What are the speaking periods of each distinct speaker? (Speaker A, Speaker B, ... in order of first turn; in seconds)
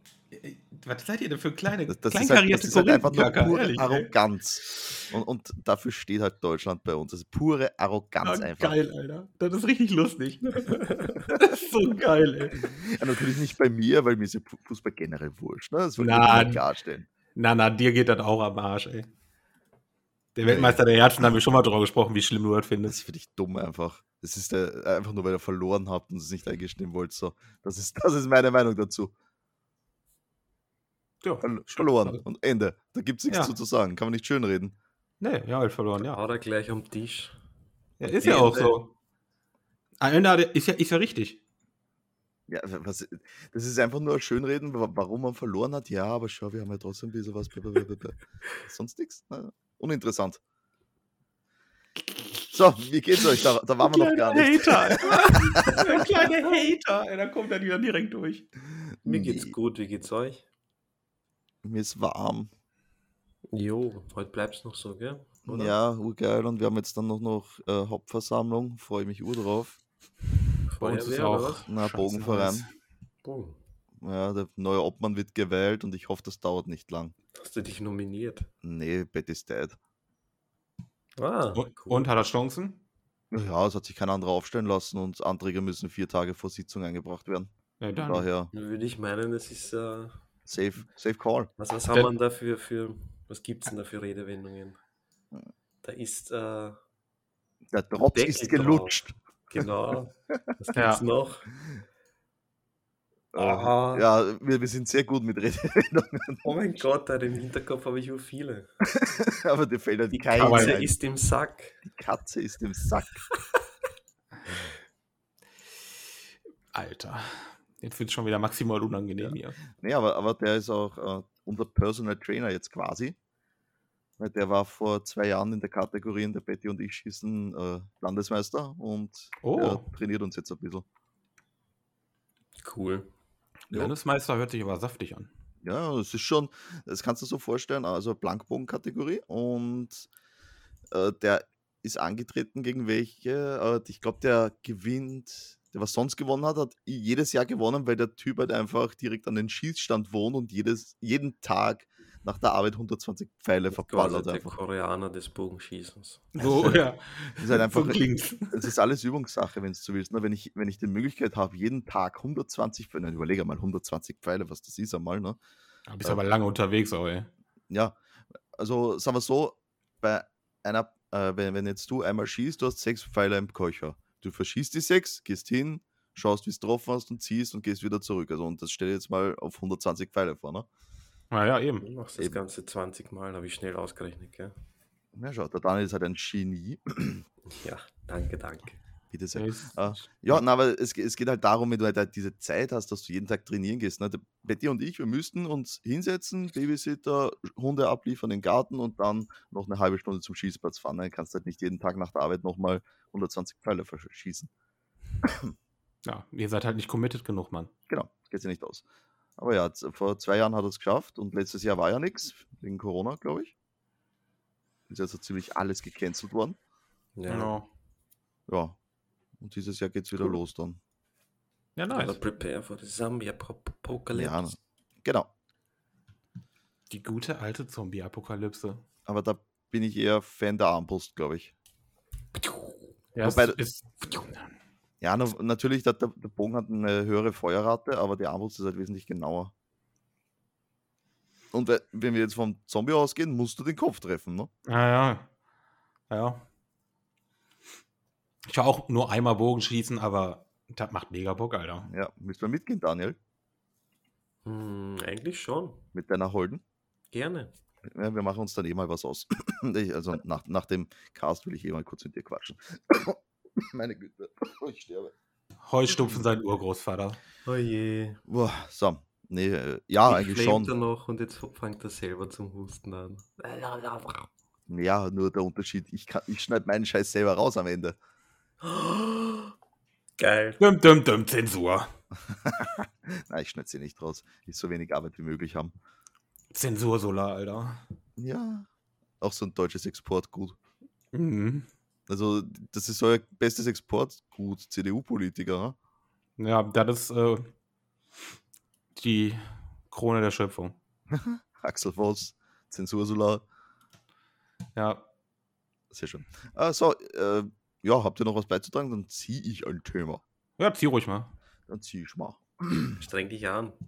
Speaker A: 0.3-4.1, 8.2-12.8, 16.0-16.6, 17.3-19.1, 20.4-23.0, 31.2-32.2, 33.3-33.5, 35.2-36.2, 38.0-38.9, 40.0-41.4, 53.8-58.5, 70.8-72.7, 81.5-82.8, 87.8-88.3, 100.8-101.0, 110.4-110.8, 116.7-119.6, 129.4-129.8, 133.7-135.3, 156.3-158.7, 165.9-167.3, 181.3-181.8, 189.3-189.8, 206.1-207.7, 217.3-217.7, 221.8-222.2, 226.9-228.8, 233.2-234.4, 244.7-245.3, 246.1-246.4, 248.4-251.9, 265.7-267.2, 280.6-281.9, 286.5-287.8, 291.1-291.7, 296.4-297.5, 298.9-300.8, 304.8-305.0, 310.6-311.3
Speaker B: 1.9-8.8, 12.8-17.1, 20.5-20.8, 22.9-29.1, 31.4-34.8, 42.5-50.4, 52.5-56.3, 59.0-59.5, 61.6-62.5, 65.5-69.8, 71.7-72.7, 74.0-77.1, 78.6-79.8, 83.3-88.5, 90.5-91.5, 97.7-99.6, 103.3-106.5, 108.9-110.9, 111.8-113.2, 119.2-123.2, 124.2-130.8, 135.6-140.1, 140.9-154.6, 156.4-156.8, 157.4-165.4, 167.7-167.9, 168.6-180.7, 185.2-187.2, 189.1-204.5, 205.2-205.5, 207.9-208.8, 209.4-213.5, 214.9-216.6, 218.5-218.8, 219.4-220.8, 224.1-225.3, 229.1-231.5, 233.2-233.6, 235.0-239.5, 241.5-244.5, 251.9-253.2, 255.9-256.6, 257.9-265.1, 268.3-270.7, 274.7-278.0, 282.3-285.7, 288.2-288.7, 289.2-290.6, 292.1-295.8, 301.1-303.4, 305.9-310.2, 311.7-313.0
Speaker C: 10.6-11.2, 36.0-37.3, 38.1-38.8, 59.0-60.4, 63.5-65.8, 70.7-71.7, 73.2-73.6, 77.3-78.5, 81.2-82.1, 88.5-90.2, 91.6-94.8, 95.8-96.8, 98.1-99.0, 99.5-101.5, 103.3-104.1, 106.4-108.7, 110.3-111.8, 132.6-133.1, 153.7-156.7, 181.8-184.5, 187.4-188.8, 217.2-217.6, 221.9-224.6, 232.4-232.7, 254.4-255.8, 257.1-257.5, 267.4-268.2, 270.1-274.3, 278.6-279.5, 280.2-280.6, 313.0-313.8